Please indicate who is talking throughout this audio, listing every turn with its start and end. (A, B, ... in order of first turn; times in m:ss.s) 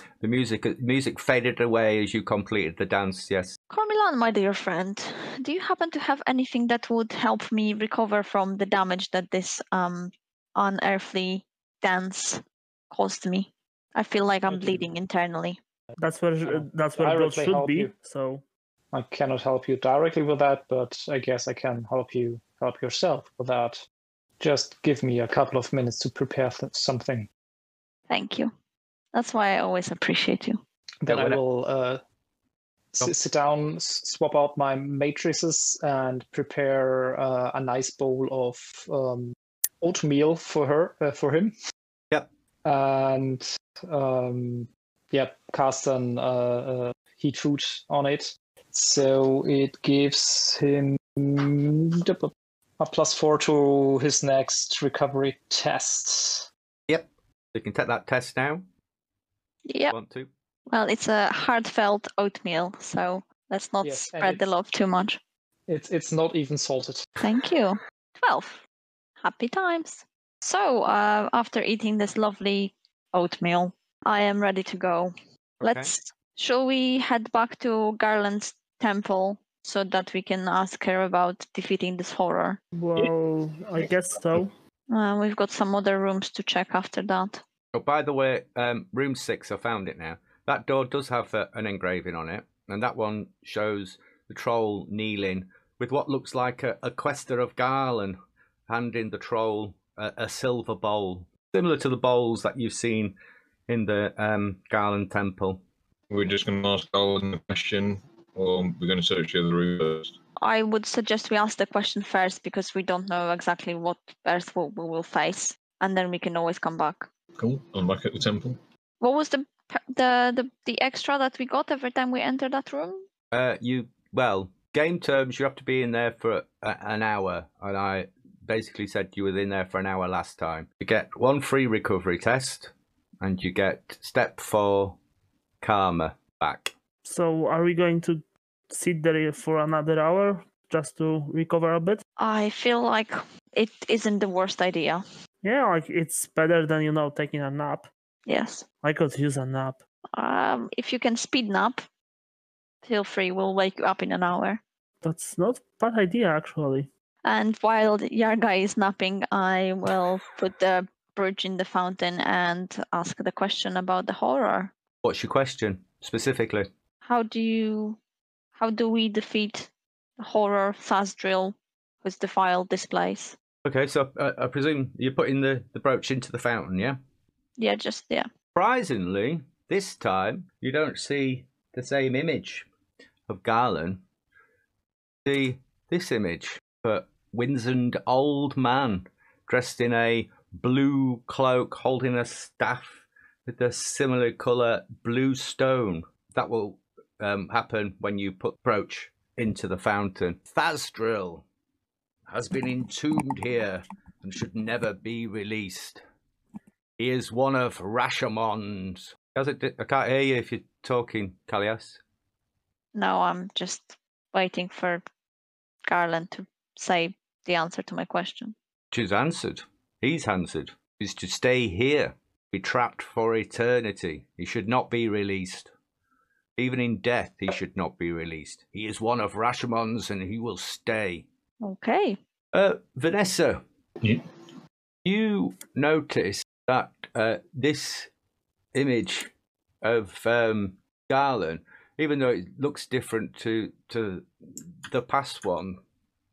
0:00.2-0:03.5 A
0:03.7-0:15.6 B
0:14.5-0:14.8 C
0:16.0-0:18.4 D
0:16.4-0:17.9 C
0:18.9-0:23.8 C
0:24.4-0:27.3 C
0:28.1-0:28.5 B
0:29.1-0:30.6 B
0:31.0-0:32.0 C
0:31.1-0:31.4 A
0:32.9-0:41.5 C
0:42.6-0:56.5 C
0:56.9-0:58.6 A
0:59.6-0:59.9 B
0:59.9-1:00.3 A
1:00.7-1:05.2 B
1:03.8-1:04.4 C
1:05.7-1:07.1 C
1:07.2-1:08.6 B
1:09.2-1:22.6 B
1:15.6-1:15.9 A
1:22.7-1:24.5 D
1:23.8-1:24.4 E
1:24.9-1:27.4 B
1:27.7-1:38.2 A
1:38.7-1:43.1 A
1:43.7-1:45.6 A
1:46.1-1:50.2 E
1:50.4-1:57.1 B
1:57.4-1:58.6 E
1:59.0-2:03.0 B
2:03.3-2:15.0 A
2:15.6-2:16.7 A
2:17.0-2:22.0 D
2:22.2-2:25.0 B
2:25.4-2:27.9 D
2:28.3-2:28.6 B
2:28.8-2:29.8 D
2:30.1-2:31.8 B
2:32.8-2:34.6 B
2:35.0-2:36.9 D
2:37.2-2:44.7 B
2:45.0-2:46.7 A
2:47.0-2:48.0 B
2:48.6-2:53.4 B
2:53.6-2:57.0 A
2:57.6-2:58.3 B
2:58.5-3:02.6 A
3:03.3-3:04.0 A
3:05.2-3:21.4 A
3:22.3-3:26.0 A
3:27.0-3:32.0 A
3:32.9-3:35.0 B
3:35.9-3:38.5 B
3:38.9-3:45.7 A
3:46.6-3:51.2 A
3:51.6-3:52.2 B
3:52.5-3:53.6 A
3:55.0-3:58.1 A
3:58.7-3:59.3 A
3:59.8-4:05.8 A